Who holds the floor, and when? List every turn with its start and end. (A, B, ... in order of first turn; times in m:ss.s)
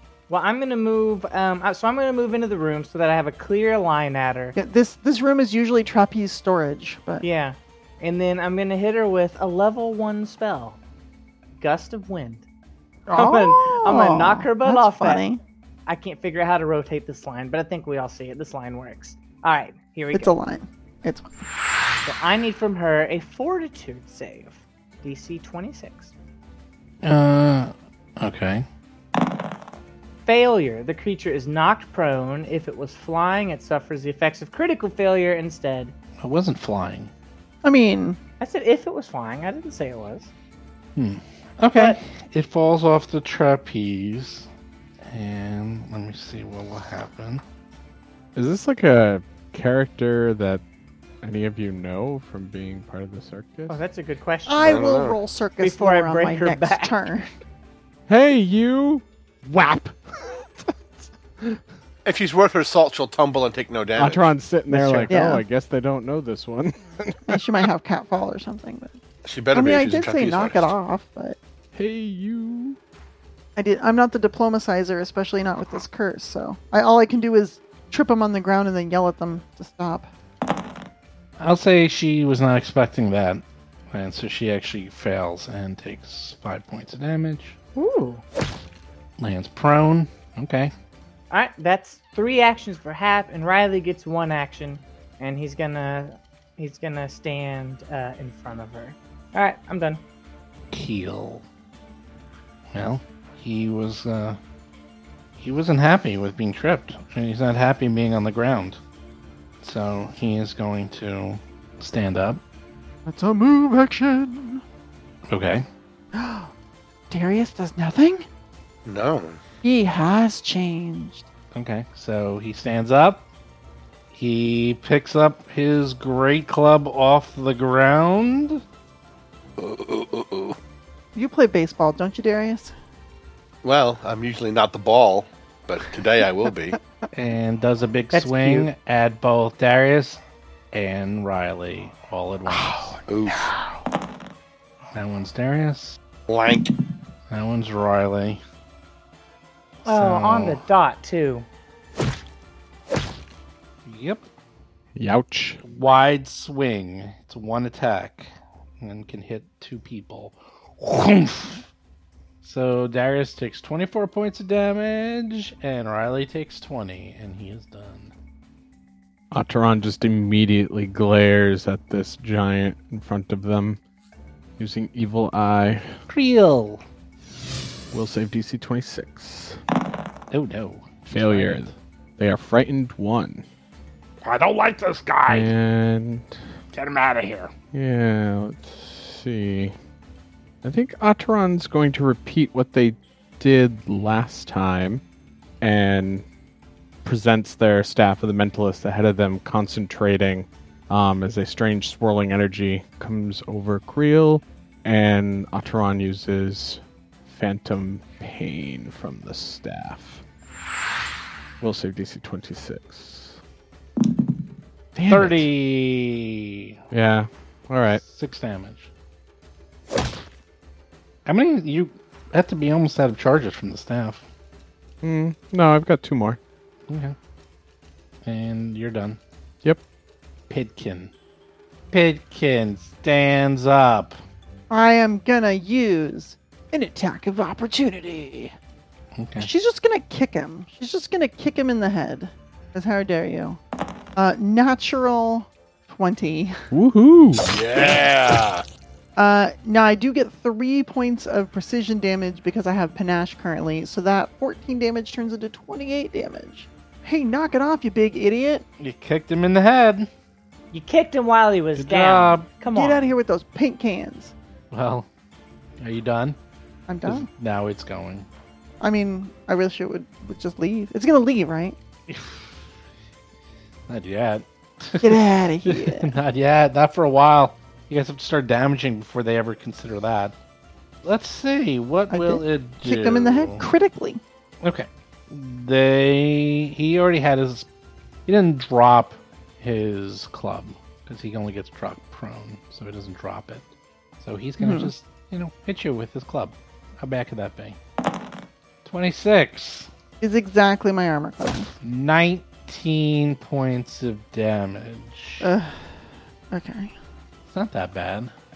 0:00.3-0:04.6 A
0:04.5-0:07.2 B
0:07.2-0:10.8 A
0:11.6-0:12.4 A
0:13.1-0:15.4 B
0:13.1-0:15.2 A
0:15.9-0:20.3 A
0:20.1-0:21.4 B
0:22.0-0:26.1 A
0:27.0-0:28.6 C
0:30.2-0:35.9 A
0:36.2-0:37.1 C
0:37.6-0:38.2 B
0:38.4-0:40.3 A
0:41.0-0:44.5 C
0:45.1-0:47.4 C
0:48.3-0:50.6 D
0:51.2-0:53.8 D
0:53.7-0:54.9 A
0:54.5-0:57.3 B
0:54.6-0:55.2 E
0:55.6-0:57.0 A
0:58.1-1:00.0 D
1:02.0-1:04.3 E
1:04.0-1:07.4 D
1:04.7-1:05.1 C
1:05.1-1:05.4 B
1:07.3-1:09.0 B
1:09.2-1:10.7 E
1:09.5-1:11.4 B
1:11.7-1:12.8 D
1:13.6-1:20.1 B
1:21.4-1:27.6 C
1:27.8-1:28.2 A
1:29.2-1:30.7 C
1:31.3-1:40.0 A
1:40.7-1:41.4 C
1:42.7-1:44.4 C
1:45.4-1:48.8 C
1:49.6-1:52.4 C
1:53.0-1:54.6 B
1:55.3-1:55.7 C
1:56.1-1:56.5 B
1:57.1-1:58.2 B
1:58.8-1:59.4 E
1:59.6-2:01.2 B
2:01.5-2:03.2 C
2:04.1-2:08.6 C
2:09.6-2:10.6 E
2:11.1-2:12.7 B
2:13.6-2:16.8 E
2:17.1-2:20.2 C
2:18.1-2:18.7 A
2:20.7-2:23.0 C
2:22.9-2:23.6 B
2:23.0-2:23.5 E
2:24.9-2:26.0 C
2:26.3-2:26.7 E
2:27.3-2:28.4 C
2:29.8-2:30.6 C
2:29.8-2:31.4 A
2:33.8-2:34.2 C
2:34.9-2:35.6 D
2:35.6-2:41.7 C
2:42.4-2:48.1 C
2:49.3-2:53.8 D
2:54.6-2:56.0 D
2:56.1-2:56.8 C
2:57.9-2:59.6 D
3:00.3-3:01.8 C
3:01.1-3:03.4 D
3:04.2-3:05.5 C
3:05.3-3:06.4 D
3:06.7-3:07.5 C
3:07.7-3:09.7 D
3:10.6-3:15.0 D
3:15.6-3:16.2 D
3:17.0-3:30.2 D
3:31.6-3:33.4 D
3:34.9-3:35.5 D
3:35.0-3:36.7 C
3:36.9-3:38.0 D
3:38.0-3:38.9 C
3:41.2-3:44.2 C
3:45.0-3:46.4 D
3:46.9-3:47.2 C
3:48.2-3:49.2 C
3:50.5-3:51.1 C
3:51.9-3:54.2 C
3:54.7-3:58.5 B
3:59.2-3:59.5 C
3:59.4-4:03.6 B
4:04.2-4:06.5 B
4:06.7-4:07.4 D
4:07.5-4:08.6 E
4:09.2-4:18.6 B
4:18.8-4:20.1 C
4:20.7-4:23.0 A
4:21.8-4:22.5 C
4:22.7-4:24.3 B
4:24.7-4:25.1 C
4:25.8-4:26.4 C
4:26.9-4:27.3 B
4:27.0-4:28.3 C
4:28.8-4:31.8 B
4:32.1-4:32.7 C
4:33.9-4:40.3 C
4:35.0-4:36.1 B
4:41.0-4:43.7 C
4:42.1-4:44.2 B
4:44.6-4:47.7 C
4:48.3-4:53.7 C
4:54.2-4:57.8 C
4:54.6-4:54.9 B
4:58.8-4:59.9 C
5:00.2-5:01.7 B
5:01.8-5:05.5 C
5:05.4-5:06.0 B
5:06.5-5:06.9 B
5:07.5-5:08.3 C